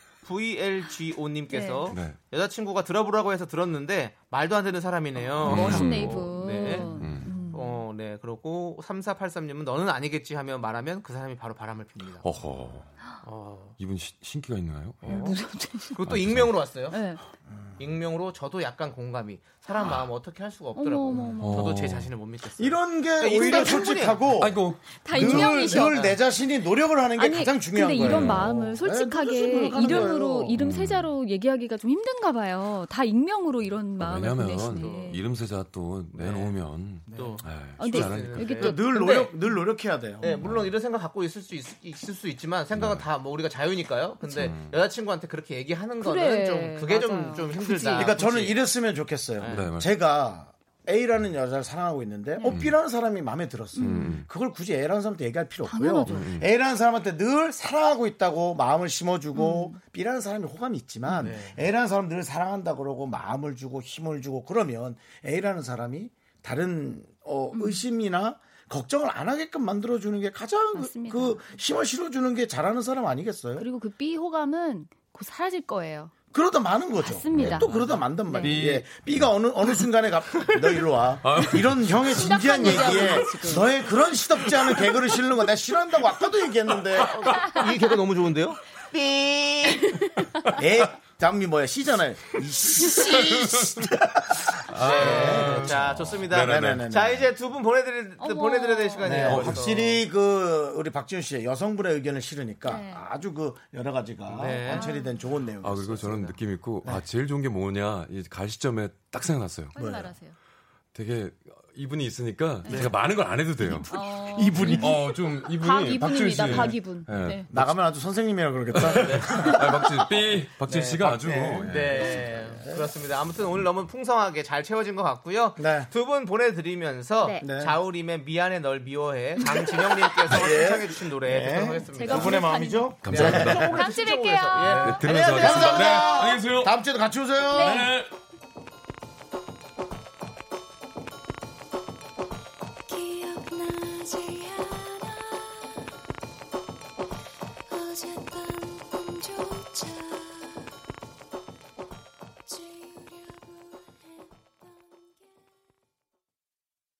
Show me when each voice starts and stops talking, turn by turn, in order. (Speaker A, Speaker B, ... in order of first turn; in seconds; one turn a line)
Speaker A: 0.2-12.3
Speaker B: 1.5-2.0
Speaker C: 1.9-2.2
Speaker B: 5.4-7.8
Speaker C: 5.4-6.2
Speaker C: 6.8-7.4
Speaker C: 12.2-12.9
Speaker A: 13.2-13.8
Speaker C: 13.8-15.3
Speaker A: 15.0-15.4
Speaker B: 15.0-16.0
Speaker A: 15.9-17.0
Speaker C: 16.1-16.6
Speaker B: 16.9-17.2
Speaker A: 17.8-24.2
Speaker B: 20.8-21.9
Speaker C: 21.4-22.1
Speaker D: 22.6-30.6
Speaker B: 23.3-23.9
Speaker C: 24.4-25.5
Speaker B: 24.9-26.1
Speaker A: 25.6-26.2
Speaker B: 27.1-35.2
Speaker C: 28.0-28.5
Speaker C: 30.6-31.1
Speaker C: 34.0-38.6
Speaker A: 34.5-35.2
Speaker A: 36.1-36.5
Speaker D: 37.1-37.4
Speaker A: 37.1-39.3
Speaker B: 37.8-39.3
Speaker D: 38.6-40.3
Speaker A: 40.2-48.6
Speaker C: 40.4-40.7
Speaker C: 42.7-43.0
Speaker C: 44.3-44.8
Speaker B: 46.0-48.2
Speaker D: 48.0-73.7
Speaker A: 49.4-49.6
Speaker C: 49.5-49.9
Speaker C: 52.5-52.7
Speaker B: 53.7-54.2
Speaker C: 53.8-54.2
Speaker B: 55.6-56.4
Speaker C: 56.1-56.5
Speaker B: 59.3-59.8
Speaker A: 61.2-61.6
Speaker B: 67.5-67.8
Speaker B: 70.7-71.4
Speaker B: 73.6-76.1
Speaker D: 76.3-87.3
Speaker B: 77.0-78.6
Speaker A: 77.6-78.0
Speaker C: 78.4-79.3
Speaker C: 81.2-82.1
Speaker B: 82.0-83.7
Speaker C: 82.7-83.2
Speaker A: 87.1-90.0
Speaker D: 90.6-97.3
Speaker C: 93.1-93.9
Speaker C: 94.7-96.9
Speaker A: 94.7-100.0
Speaker B: 98.2-99.3
Speaker D: 99.0-107.0
Speaker C: 99.3-99.7
Speaker B: 102.6-103.0
Speaker A: 104.3-104.9
Speaker B: 104.6-105.2
Speaker C: 105.6-109.7
Speaker B: 109.7-110.3
Speaker D: 109.7-110.2
Speaker C: 110.9-113.9
Speaker B: 112.6-112.9
Speaker D: 113.6-115.0
Speaker B: 113.8-117.5
Speaker C: 114.6-117.7
Speaker D: 116.0-116.7
Speaker D: 117.5-119.5
Speaker C: 118.7-122.1
Speaker A: 118.9-119.5
Speaker B: 119.3-120.1
Speaker A: 120.6-132.5
Speaker D: 121.1-122.9
Speaker D: 125.6-125.9
Speaker D: 127.4-127.8
Speaker B: 129.5-129.9
Speaker D: 130.3-133.8
Speaker B: 131.9-134.9
Speaker C: 133.0-133.8
Speaker A: 133.1-136.2
Speaker D: 134.8-137.9
Speaker C: 134.8-136.7
Speaker B: 137.5-137.9
Speaker C: 137.6-138.1
Speaker E: 142.9-145.6
Speaker E: 147.7-150.7
Speaker E: 152.5-153.8